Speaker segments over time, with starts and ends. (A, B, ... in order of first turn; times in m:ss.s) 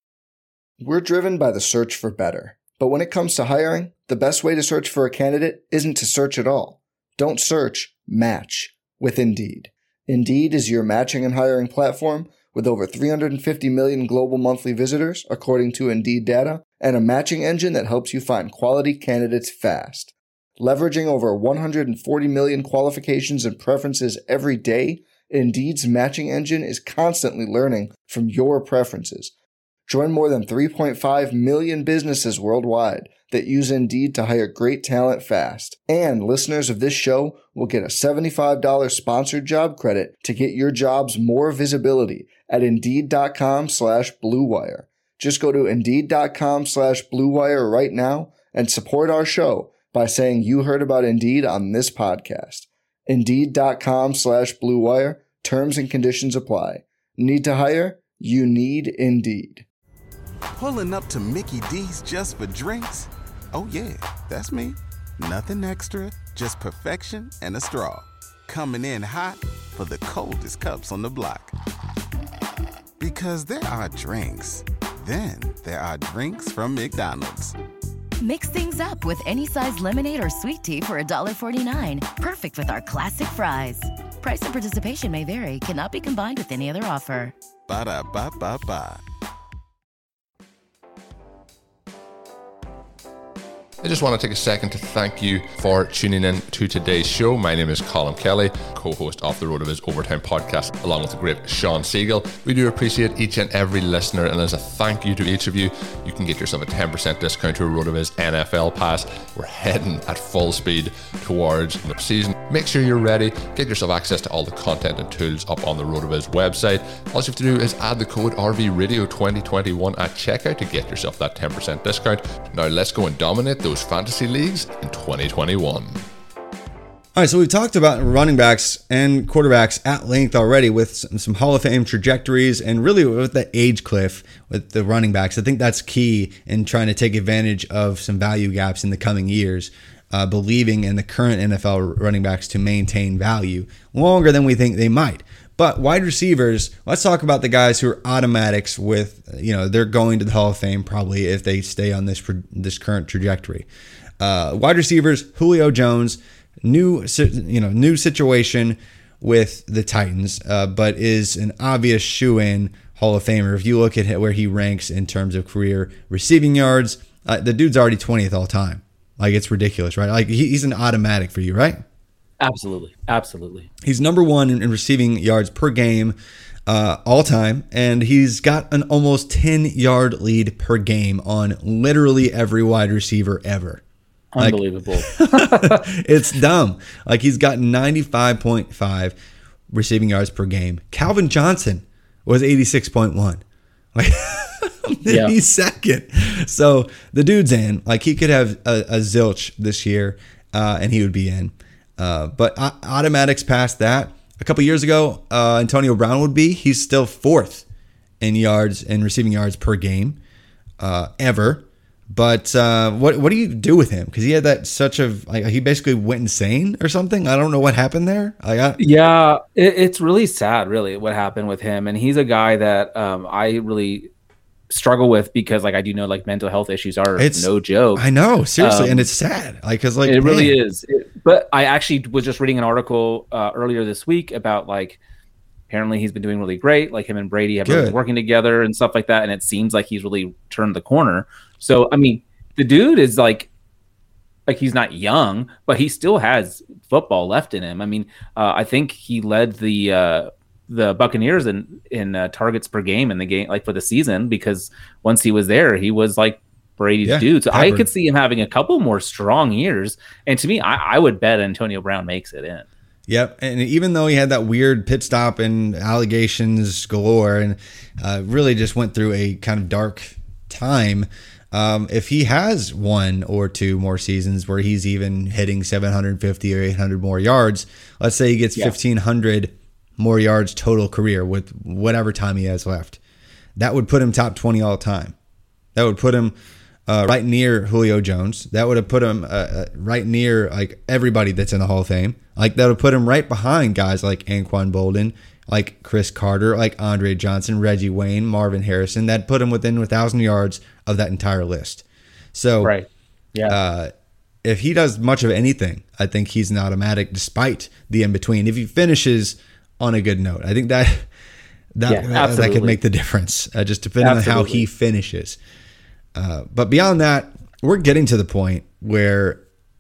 0:00.8-0:29.3 A
0:29.9-0:59.6 A
1:00.6-1:11.5 B
1:13.0-1:17.5 B
1:18.2-1:27.3 C
1:27.7-1:29.0 B
1:33.8-2:06.0 D
2:07.2-2:33.7 E
2:34.2-2:51.8 E
2:52.4-2:53.7 F
2:53.8-2:56.2 E
2:56.7-3:03.8 E
3:04.3-3:05.8 F
3:04.4-3:09.2 E
3:09.7-3:13.4 E
3:13.9-3:27.6 E
3:15.1-3:15.3 F
3:28.2-3:30.2 E
3:30.8-3:38.8 E
3:38.8-3:44.1 F
3:44.7-3:48.0 F
3:47.2-3:50.5 E
3:48.6-3:49.1 F
3:50.0-3:55.0 F
3:55.7-4:03.5 F
3:57.6-3:58.0 E
4:04.5-4:22.6 F
4:17.0-4:17.9 E
4:23.1-4:43.0 E
4:43.6-4:45.1 E
4:45.8-4:46.3 E
4:46.9-5:02.7 E
5:02.6-5:03.6 F
5:03.5-5:03.9 E
5:04.4-5:11.1 E
5:11.7-5:15.4 E
5:11.9-5:12.8 F
5:14.0-5:14.6 F
5:16.1-5:19.4 E